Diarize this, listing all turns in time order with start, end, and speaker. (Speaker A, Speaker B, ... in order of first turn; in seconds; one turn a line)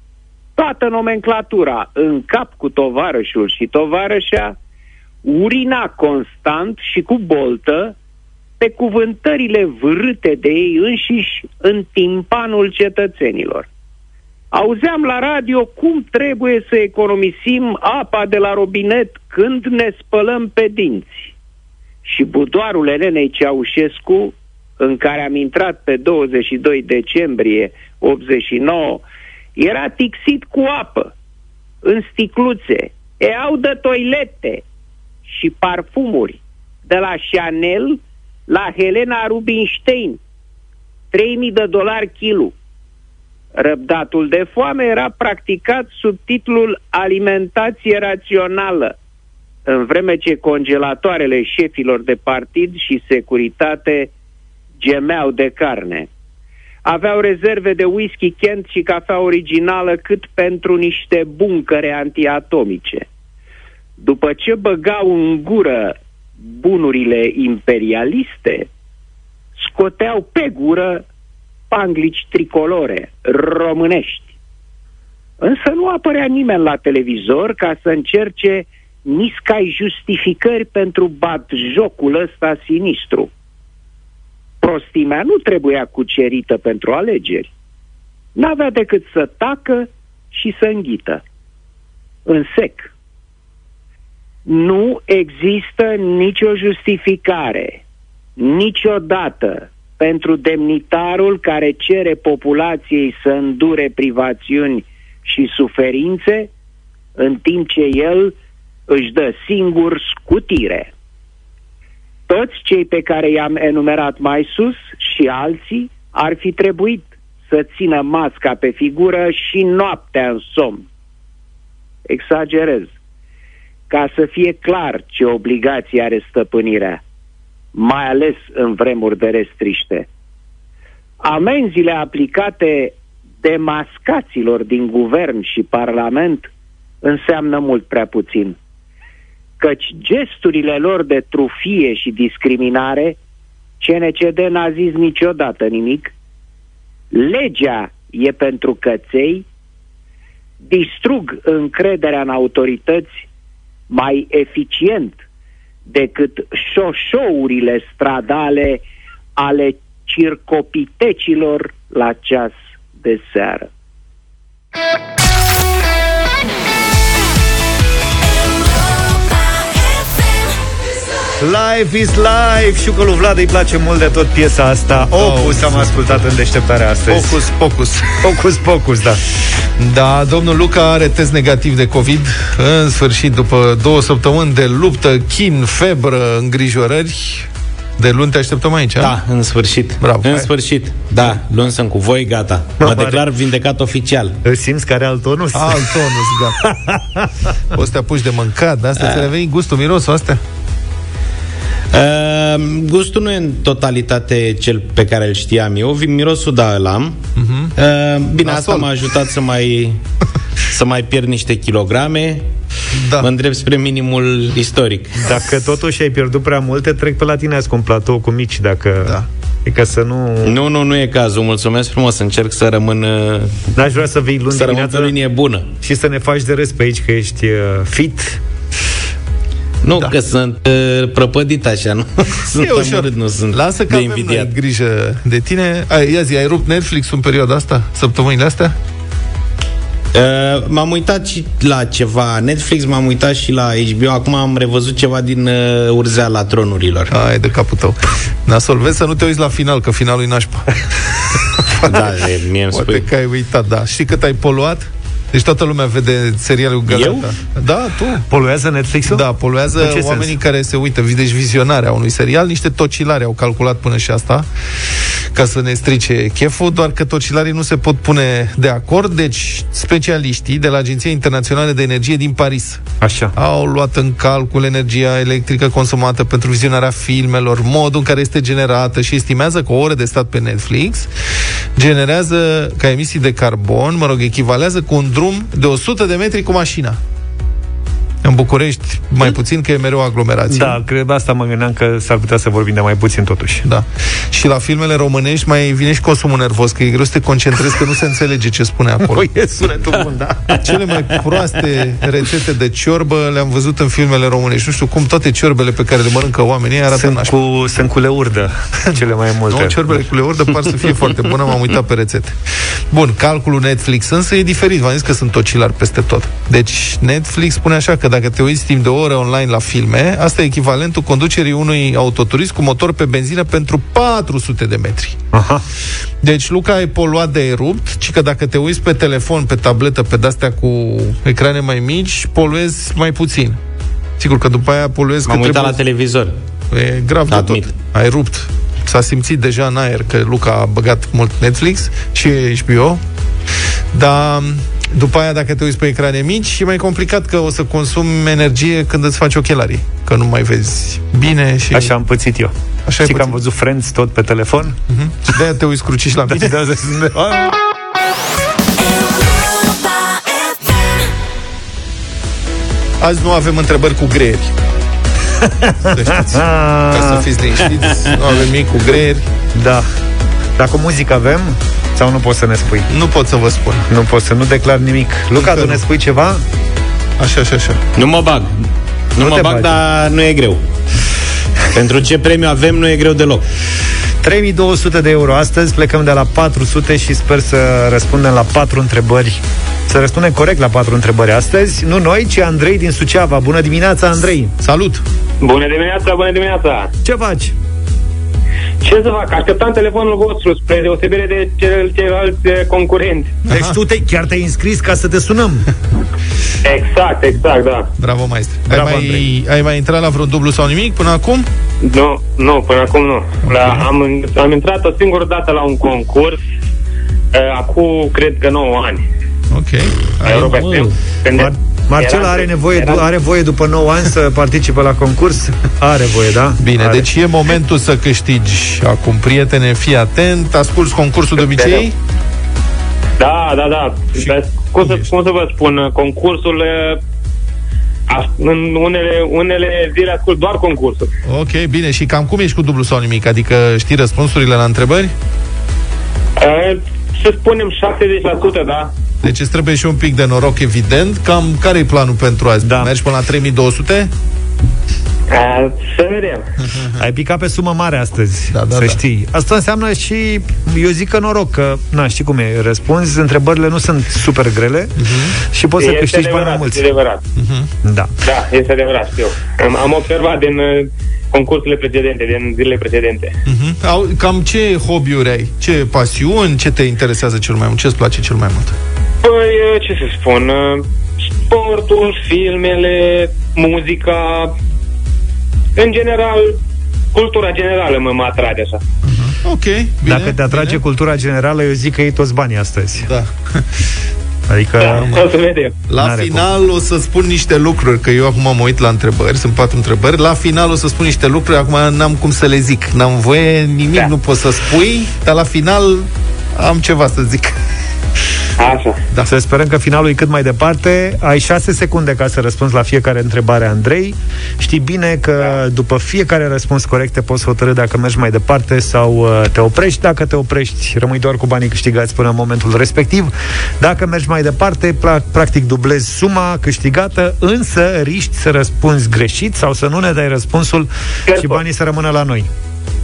Speaker A: 0.6-4.5
Speaker A: 5.2-7.9
Speaker A: 8.6-13.7
Speaker A: 14.5-21.3
Speaker A: 22.0-29.0
Speaker A: 29.6-31.1
Speaker A: 31.8-34.6
Speaker A: 35.3-40.2
Speaker A: 41.1-42.5
Speaker A: 43.5-48.9
Speaker A: 49.7-54.1
Speaker A: 54.8-56.1
Speaker A: 56.8-63.0
Speaker A: 64.0-68.7
Speaker A: 69.6-71.0
Speaker A: 71.7-74.3
Speaker A: 75.4-83.3
Speaker A: 84.6-87.5
Speaker A: 88.3-91.2
Speaker A: 92.2-92.9
Speaker A: 94.5-97.8
Speaker A: 98.4-106.5
Speaker A: 107.2-108.3
Speaker A: 108.9-110.9
Speaker A: 112.3-120.8
Speaker A: 122.1-122.9
Speaker A: 123.9-127.0
Speaker A: 127.7-130.1
Speaker A: 131.2-136.5
Speaker A: 137.0-138.6
Speaker A: 139.6-143.2
Speaker A: 143.8-146.1
Speaker A: 147.1-149.4
Speaker A: 150.6-153.2
Speaker A: 153.9-155.2
Speaker A: 155.9-158.8
Speaker A: 159.4-163.7
Speaker B: 171.4-177.4
Speaker C: 175.1-176.3
Speaker C: 177.1-178.2
Speaker B: 178.2-179.2
Speaker C: 179.8-189.2
Speaker D: 189.0-194.4
Speaker C: 190.0-190.5
Speaker B: 192.8-193.2
Speaker B: 194.4-196.0
Speaker C: 195.5-196.6
Speaker B: 196.6-197.3
Speaker C: 197.7-200.4
Speaker D: 201.9-207.2
Speaker C: 207.3-207.7
Speaker D: 207.8-210.0
Speaker C: 208.4-208.9
Speaker D: 210.7-212.5
Speaker C: 212.9-213.3
Speaker D: 213.2-215.2
Speaker B: 215.2-220.5
Speaker D: 220.4-223.6
Speaker B: 223.7-225.1
Speaker D: 224.5-225.7
Speaker B: 225.8-228.4
Speaker D: 229.8-234.5
Speaker C: 232.5-238.8
Speaker D: 240.1-247.1
Speaker C: 247.1-258.3
Speaker D: 251.8-253.1
Speaker D: 256.9-257.3
Speaker B: 258.3-259.2
Speaker C: 259.1-264.5
Speaker B: 259.8-260.3
Speaker C: 265.3-272.8
Speaker B: 273.0-273.3
Speaker C: 273.3-281.1
Speaker C: 281.8-287.0
Speaker C: 288.2-290.8
Speaker B: 290.5-293.6
Speaker C: 293.6-299.3
Speaker B: 299.0-301.2
Speaker C: 300.6-307.4
Speaker B: 306.9-310.0
Speaker C: 309.5-325.2
Speaker B: 325.3-325.6
Speaker C: 326.2-333.6
Speaker C: 334.2-335.8
Speaker D: 335.2-336.3
Speaker C: 336.7-343.0
Speaker D: 337.3-337.7
Speaker C: 343.9-351.9
Speaker B: 351.7-354.8
Speaker C: 352.9-353.4
Speaker C: 354.9-356.6
Speaker B: 356.3-357.5
Speaker C: 363.0-364.5
Speaker B: 365.4-367.3
Speaker C: 365.9-369.2
Speaker B: 369.5-369.9
Speaker B: 370.6-372.9
Speaker C: 372.9-373.8
Speaker B: 373.9-376.4
Speaker C: 375.3-375.8
Speaker C: 377.2-377.8
Speaker D: 378.0-378.5
Speaker D: 379.2-380.6
Speaker B: 379.2-379.7
Speaker D: 381.7-383.4
Speaker B: 384.2-394.5
Speaker C: 394.6-395.0
Speaker E: 395.4-396.9
Speaker B: 397.0-397.5
Speaker E: 398.8-403.4
Speaker C: 403.4-403.8
Speaker B: 403.5-405.7
Speaker E: 406.6-407.9
Speaker C: 408.0-411.5
Speaker B: 408.7-409.2
Speaker E: 411.8-416.4
Speaker C: 413.5-413.8
Speaker E: 417.3-419.0
Speaker C: 419.5-420.7
Speaker E: 420.2-423.1
Speaker D: 420.2-420.9
Speaker B: 421.3-427.1
Speaker C: 426.6-431.9
Speaker E: 431.5-431.9
Speaker E: 433.2-437.0
Speaker C: 434.8-435.1
Speaker E: 438.1-441.1
Speaker C: 441.2-445.1
Speaker E: 446.4-448.9
Speaker C: 449.2-454.1
Speaker B: 452.6-452.9
Speaker E: 455.3-456.4
Speaker C: 456.6-456.9
Speaker B: 457.0-464.9
Speaker C: 458.5-459.0
Speaker C: 465.0-465.3
Speaker B: 465.5-466.8
Speaker E: 465.8-467.2
Speaker C: 467.4-467.7
Speaker B: 467.8-468.1
Speaker E: 468.2-473.4
Speaker C: 473.4-478.7
Speaker E: 479.2-480.9
Speaker E: 481.4-484.5
Speaker E: 485.8-486.6
Speaker E: 487.1-488.8
Speaker C: 489.0-490.8
Speaker B: 490.1-493.1
Speaker C: 493.0-493.6
Speaker B: 494.5-495.2
Speaker E: 494.8-495.7
Speaker C: 494.9-495.2
Speaker C: 495.9-507.6
Speaker B: 496.0-496.4
Speaker E: 508.6-509.0
Speaker B: 509.2-532.5
Speaker E: 531.3-531.6